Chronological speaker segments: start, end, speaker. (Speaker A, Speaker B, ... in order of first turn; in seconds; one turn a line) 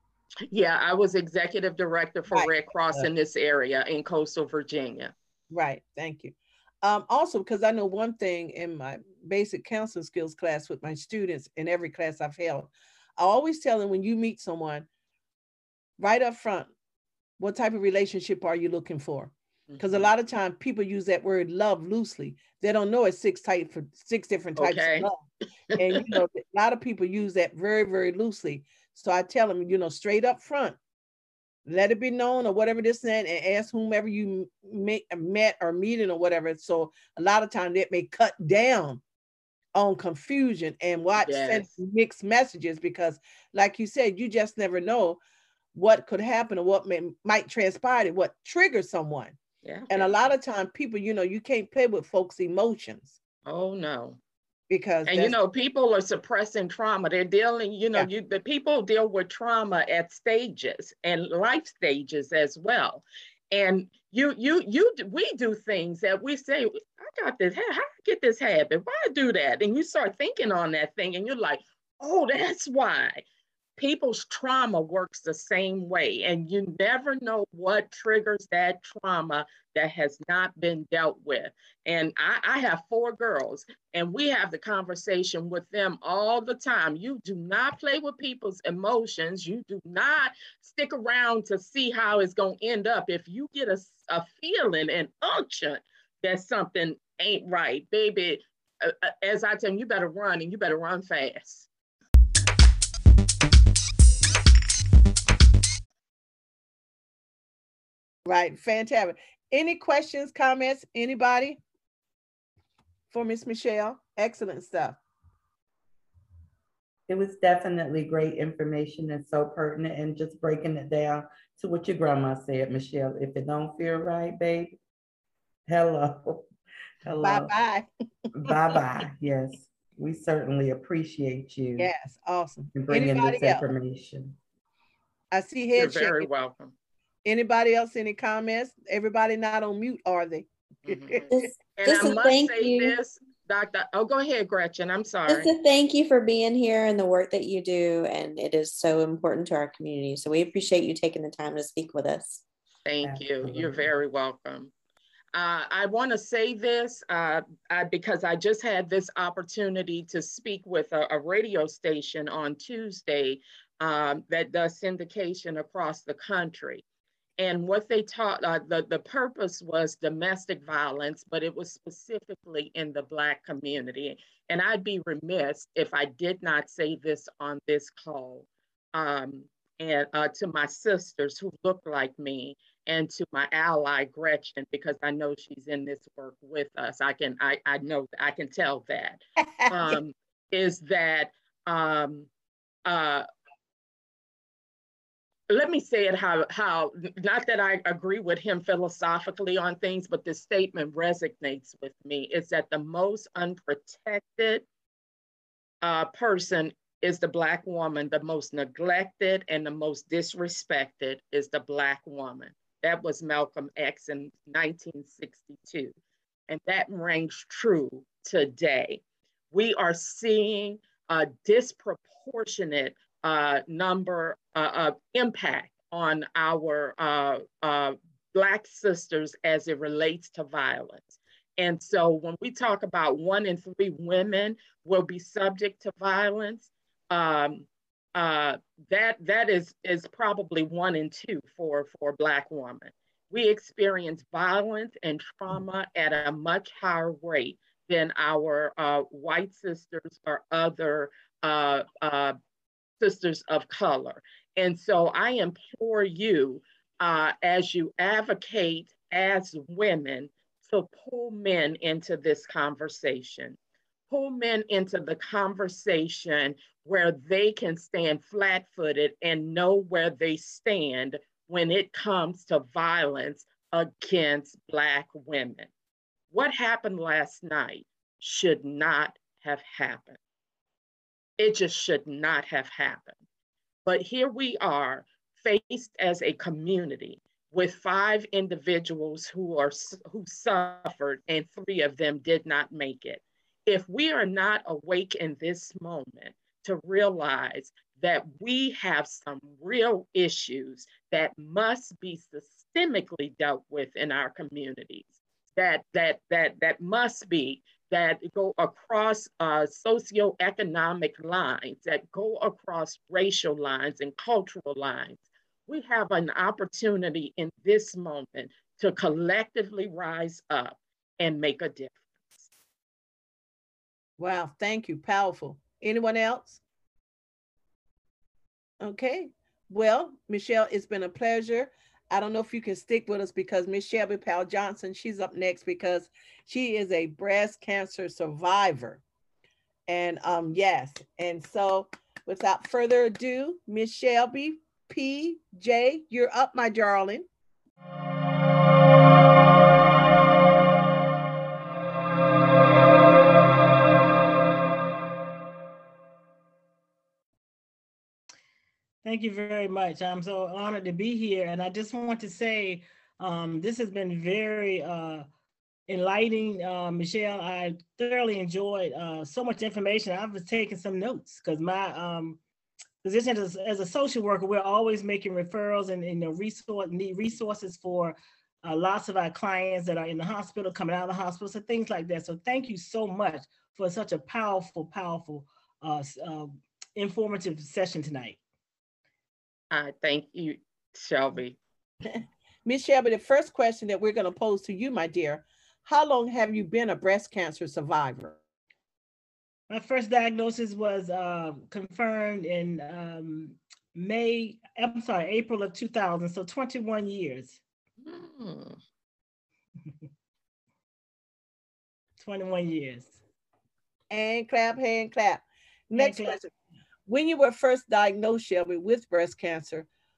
Speaker A: 0.5-5.1
Speaker B: 2.3-3.1
Speaker B: 5.5-14.9
Speaker B: 16.0-16.7
Speaker B: 17.4-25.2
Speaker A: 19.7-20.1
Speaker A: 24.6-25.1
Speaker A: 25.8-26.2
Speaker B: 25.8-30.8
Speaker B: 31.7-39.0
Speaker B: 39.7-45.2
Speaker A: 41.2-41.7
Speaker B: 45.7-49.4
Speaker A: 49.6-50.3
Speaker B: 49.9-53.2
Speaker A: 53.5-54.2
Speaker B: 54.7-55.4
Speaker A: 55.1-73.2
Speaker A: 73.8-101.7
Speaker B: 108.2-111.6
Speaker B: 113.1-115.0
Speaker C: 117.1-124.8
Speaker C: 125.7-126.5
Speaker C: 127.0-127.5
Speaker B: 127.2-127.9
Speaker C: 128.4-131.9
Speaker B: 131.8-133.7
Speaker C: 132.7-134.4
Speaker B: 135.3-136.3
Speaker A: 135.8-136.7
Speaker B: 137.2-141.4
Speaker A: 140.9-145.5
Speaker D: 141.3-143.0
Speaker D: 145.3-152.4
Speaker A: 152.9-154.7
Speaker C: 153.0-153.9
Speaker A: 155.3-166.8
Speaker A: 167.4-192.3
Speaker B: 189.7-189.9
Speaker A: 192.9-193.2
Speaker A: 195.5-204.7
Speaker A: 205.8-215.9
Speaker A: 216.5-252.4
Speaker A: 253.0-263.6
Speaker A: 264.1-275.7
Speaker A: 276.3-280.2
Speaker A: 281.4-283.2
Speaker A: 283.9-322.5
Speaker B: 324.2-326.6
Speaker B: 328.8-339.0
Speaker B: 339.9-347.3
Speaker E: 359.0-365.3
Speaker E: 365.9-372.4
Speaker E: 373.0-388.4
Speaker A: 389.7-391.6
Speaker B: 392.6-398.4
Speaker E: 399.7-407.6
Speaker A: 408.0-408.8
Speaker E: 412.2-413.2
Speaker B: 414.1-416.4
Speaker E: 416.0-416.5
Speaker B: 417.1-419.9